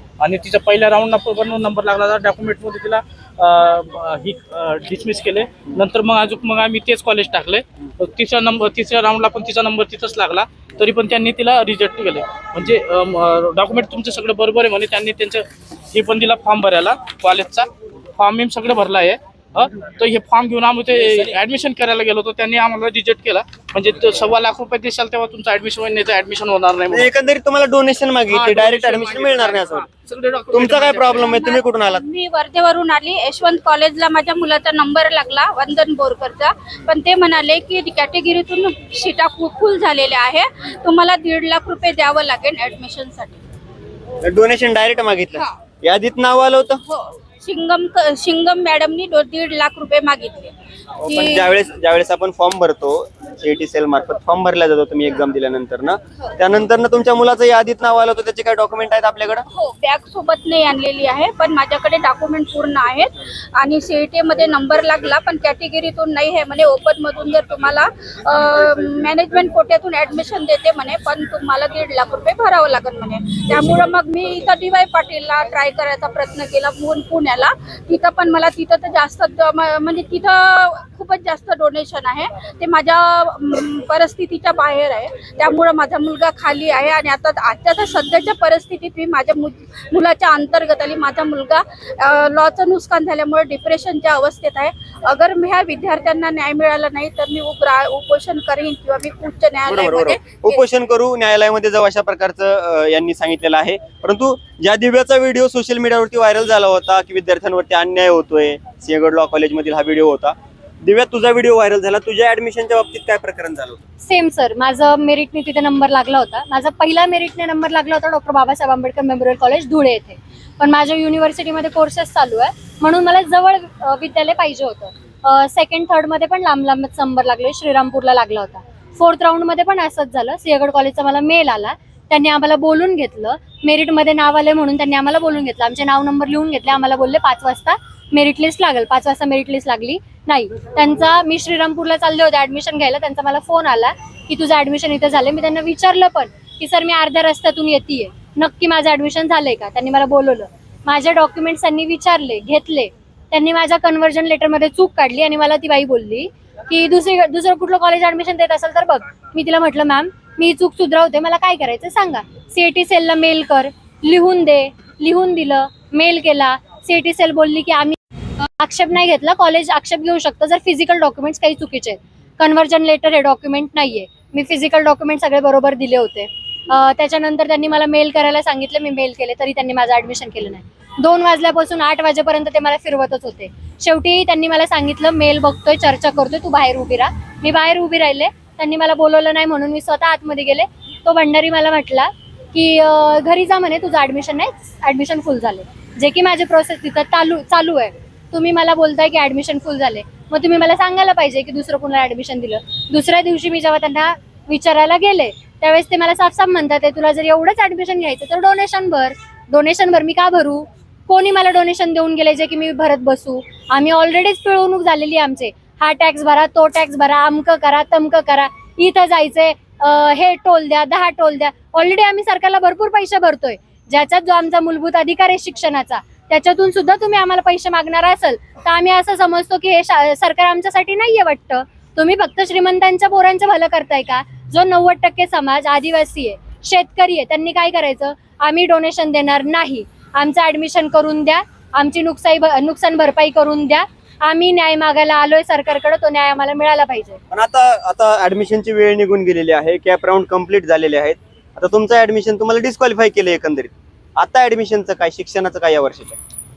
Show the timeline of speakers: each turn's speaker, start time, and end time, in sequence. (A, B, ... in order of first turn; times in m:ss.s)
0:00.2-0:27.1 A
0:26.9-0:29.9 B
0:28.3-0:31.4 A
0:30.5-0:32.0 B
0:31.2-0:43.4 C
0:44.2-0:46.8 B
0:46.8-0:51.5 C
0:51.0-0:59.4 B
0:59.5-1:40.6 C
1:39.7-1:53.8 B
1:54.0-4:07.2 D
4:07.3-4:16.2 B